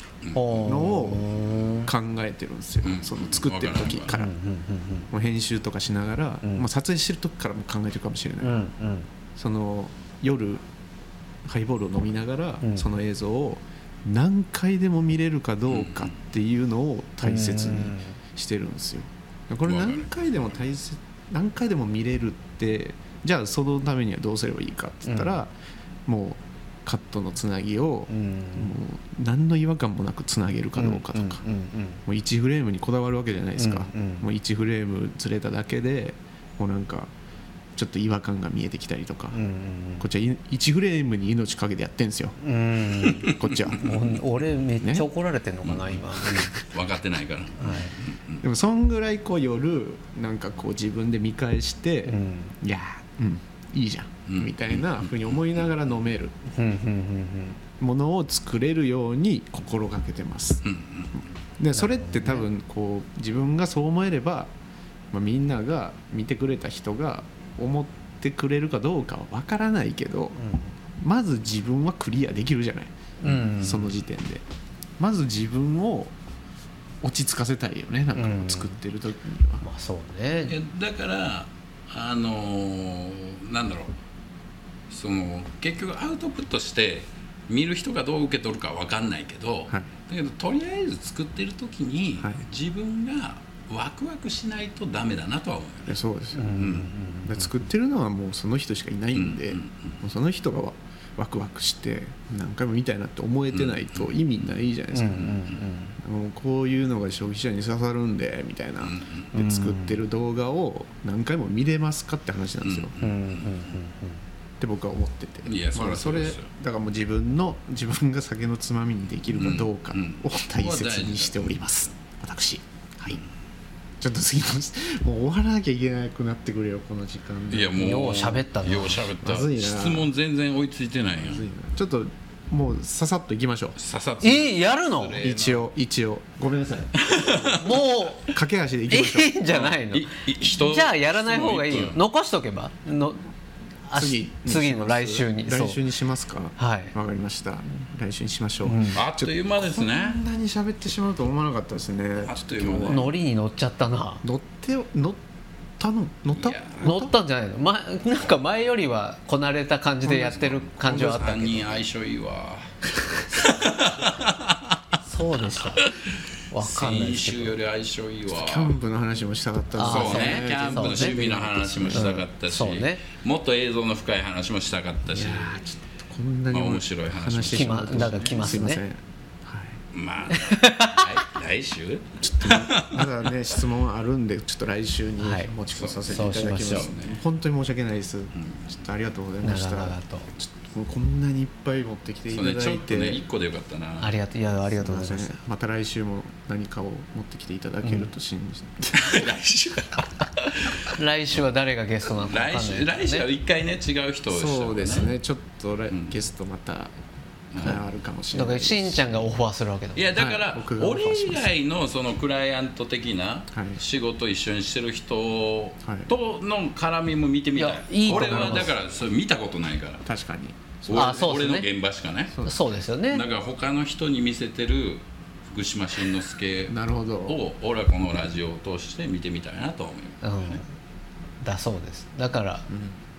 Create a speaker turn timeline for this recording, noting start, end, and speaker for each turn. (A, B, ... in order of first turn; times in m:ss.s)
0:00.2-0:01.5 A
0:00.3-0:01.9 B
0:00.6-0:04.3 C
0:02.8-0:04.1 A
0:04.1-0:05.1 B
0:05.1-0:08.7 C
0:08.4-0:09.1 B
0:09.4-0:10.6 C
0:11.4-0:25.5 C
0:15.7-0:16.1 A
0:17.2-0:18.2 B
0:19.7-0:20.1 A
0:25.1-0:25.4 B
0:26.1-0:31.4 C
0:28.1-0:28.8 B
0:30.8-0:32.0 B
0:32.0-0:37.1 C
0:33.6-0:34.2 B
0:37.8-0:39.4 C
0:39.3-0:40.0 B
0:40.0-0:42.4 C
0:42.4-0:46.6 B
0:43.1-0:44.2 A
0:43.2-0:44.0 C
0:44.8-0:45.1 C
0:45.6-0:48.4 A
0:47.6-0:48.0 B
0:48.4-0:56.4 C
0:52.1-0:52.6 B
0:54.3-0:55.5 A
0:56.5-0:57.6 B
0:57.8-1:00.6 C
1:00.6-1:01.2 A
1:01.6-1:04.5 C
1:01.8-1:02.5 B
1:05.1-1:10.4 C
1:10.4-1:10.8 B
1:11.0-1:12.9 C
1:13.2-1:13.9 B
1:13.5-1:14.4 C
1:15.0-1:16.2 C
1:17.0-1:19.6 C
1:18.2-1:18.8 B
1:19.6-1:20.6 B
1:20.5-1:24.0 A
1:24.9-1:36.0 A
1:32.2-1:32.4 C
1:35.9-1:36.6 C
1:36.4-1:37.5 B
1:36.6-1:36.9 A
1:37.2-1:45.4 C
1:39.2-1:40.0 A
1:43.6-1:44.2 A
1:44.9-1:46.0 B
1:46.0-1:53.0 C
1:48.8-1:49.3 A
1:49.3-1:50.0 B
1:52.6-1:53.8 A
1:53.0-1:54.2 B
1:54.6-2:03.2 C
1:55.5-1:56.4 A
1:59.3-2:01.7 A
2:04.0-2:07.7 C
2:07.5-2:11.5 A
2:07.8-2:09.0 B
2:09.2-2:10.1 C
2:11.2-2:13.8 C
2:13.8-2:15.7 A
2:14.2-2:15.2 B
2:15.2-2:19.3 C
2:17.0-2:17.8 A
2:17.6-2:18.4 B
2:18.9-2:23.3 B
2:19.5-2:22.0 A
2:23.9-2:25.8 B
2:24.0-2:33.1 C
2:26.6-2:26.9 B
2:28.6-2:29.0 B
2:28.9-2:30.2 A
2:32.2-2:33.1 A
2:32.9-2:34.2 B
2:34.2-2:35.2 C
2:35.8-2:37.1 C
2:36.4-2:37.0 A
2:36.8-2:41.8 B
2:40.0-2:44.8 A
2:45.0-2:45.9 B
2:45.5-2:45.9 A
2:46.5-2:47.5 B
2:46.6-2:48.8 A
2:48.3-2:52.1 C
2:49.8-2:53.0 B
2:49.8-2:55.6 A
2:55.1-2:59.8 C
2:56.5-2:58.4 A
2:57.5-2:58.8 B
2:59.9-3:03.2 A
3:00.3-3:01.1 B
3:02.2-3:13.2 C
3:05.2-3:05.5 B
3:05.7-3:07.2 A
3:06.1-3:06.9 B
3:08.4-3:08.7 A
3:09.4-3:10.3 B
3:12.3-3:14.1 A
3:14.0-3:15.4 B
3:14.7-3:19.3 C
3:17.8-3:18.1 B
3:18.9-3:20.9 A
3:20.9-3:23.2 B
3:22.1-3:25.1 A
3:24.3-3:26.9 C
3:27.5-3:27.8 A
3:27.6-3:29.3 C
3:28.3-3:30.3 B
3:30.0-3:40.0 A
3:30.2-3:31.5 C
3:33.5-3:33.8 C
3:35.8-3:36.1 C
3:37.6-3:38.7 B
3:38.1-3:38.7 C
3:40.0-3:41.3 C
3:40.8-3:42.4 A
3:40.9-3:41.7 B
3:42.3-3:42.7 C
3:42.4-3:43.2 B
3:43.1-3:50.6 A
3:46.7-3:47.4 C
3:50.2-3:50.7 B
3:51.4-3:52.7 B
3:52.7-3:53.0 C